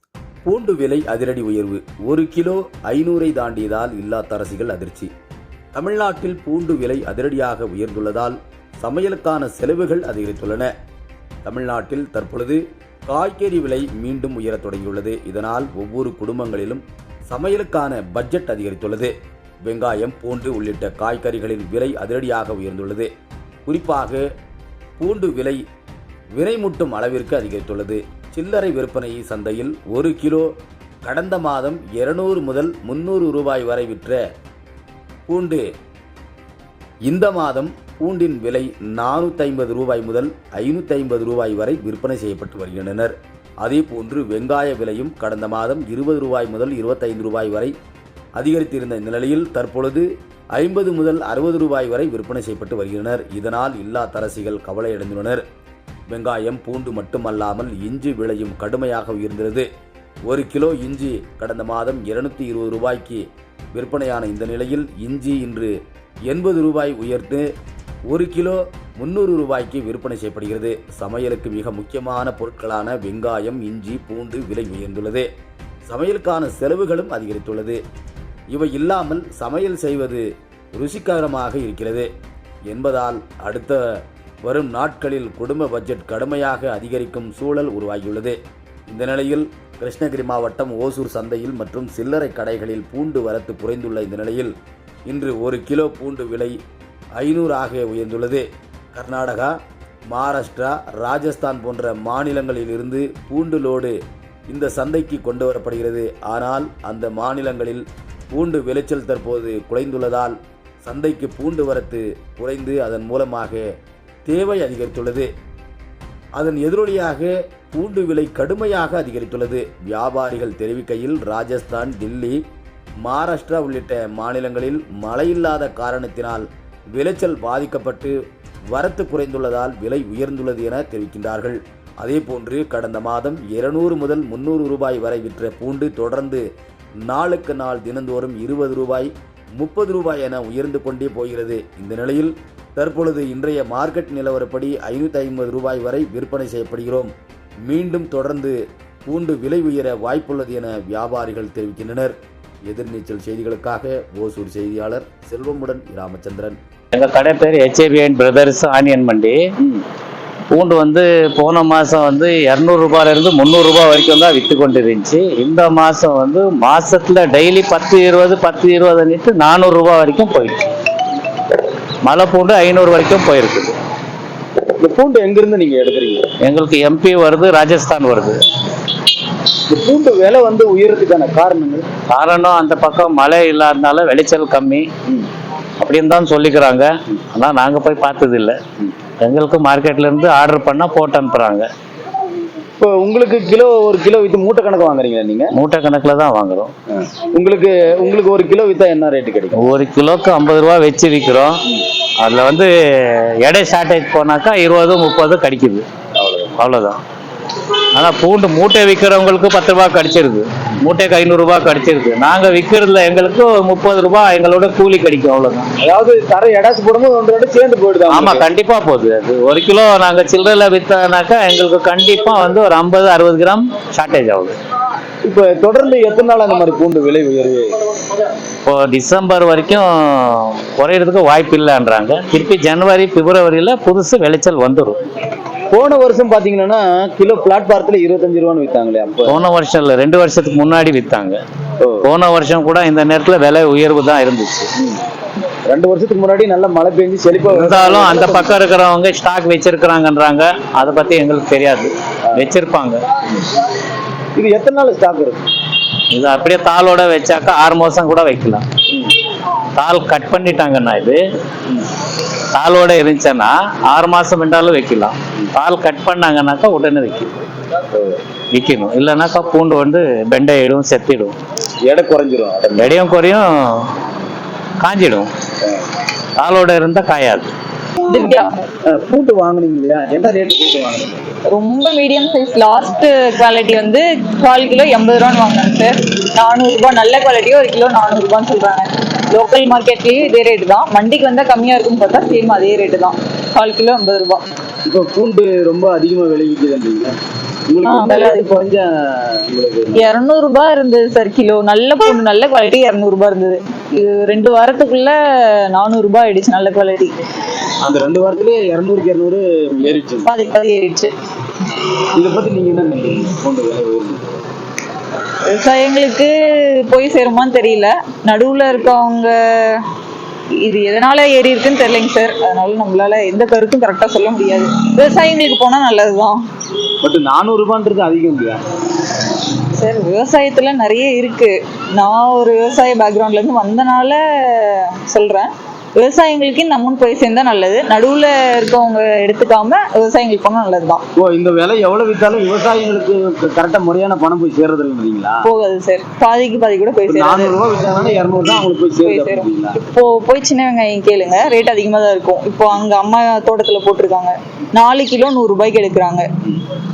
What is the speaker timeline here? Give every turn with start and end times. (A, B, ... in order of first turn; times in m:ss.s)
0:00.4-0:05.1 A
0:05.7-0:10.7 A
0:11.4-0:19.1 A
0:19.6-0:23.1 A
0:23.6-0:24.2 A
0:25.0-0:25.6 A
0:26.3-0:30.5 A
0:31.0-0:34.2 A
0:35.3-0:35.6 A
0:37.0-0:47.7 A
0:48.4-0:55.4 A
0:56.1-0:59.7 A
1:00.3-1:05.7 A
1:06.3-1:07.5 A
1:08.1-1:15.3 A
1:15.9-1:17.8 A
1:18.5-1:22.1 A
1:22.7-1:23.8 A
1:24.4-1:28.4 A
1:28.9-1:34.5 A
1:35.1-1:36.5 A
1:37.2-1:39.5 A
1:40.1-1:43.9 A
1:44.5-1:53.7 A
1:54.2-1:55.3 A
1:56.4-2:02.4 A
2:03.0-2:08.2 A
2:08.7-2:16.4 A
2:17.0-2:27.1 A
2:27.6-2:36.6 A
2:36.9-2:39.4 B
2:40.5-2:50.7 B
2:52.0-2:53.8 B
2:54.8-2:56.2 C
2:56.4-2:58.4 B
2:59.7-3:01.8 C
3:02.1-3:04.9 B
3:05.8-3:08.6 B
3:09.2-3:11.7 B
3:12.8-3:15.5 C
3:15.5-3:16.7 B
3:16.9-3:19.6 C
3:19.5-3:21.6 B
3:22.2-3:25.8 B
3:26.2-3:26.6 C
3:26.6-3:27.0 B
3:27.9-3:35.7 B
3:35.8-3:38.4 C
3:38.1-3:44.6 B
3:45.2-3:47.7 C
3:48.6-3:55.0 B
3:55.7-3:59.4 C
3:59.2-4:01.4 B
4:02.0-4:04.7 B
4:05.7-4:08.6 C
4:07.5-4:13.0 B
4:14.4-4:15.5 C
4:16.1-4:18.6 B
4:19.8-4:21.2 B
4:22.5-4:27.3 B
4:28.5-4:31.4 B
4:31.8-4:32.9 C
4:32.7-4:33.9 B
4:34.8-4:35.3 B
4:36.4-4:37.5 B
4:38.0-4:38.7 D
4:38.8-4:41.2 C
4:41.5-4:54.5 D
4:54.8-4:57.1 C
4:57.7-5:00.1 C
4:57.8-4:58.6 D
4:59.9-5:05.2 D
5:05.7-5:07.2 D
5:07.8-5:10.3 C
5:10.2-5:11.1 D
5:12.1-5:14.4 C
5:15.4-5:19.8 D
5:20.6-5:26.4 D
5:27.0-5:28.6 C
5:29.8-5:41.0 D
5:41.2-5:45.4 C
5:45.4-5:47.5 D
5:47.1-5:49.7 C
5:49.0-5:56.3 D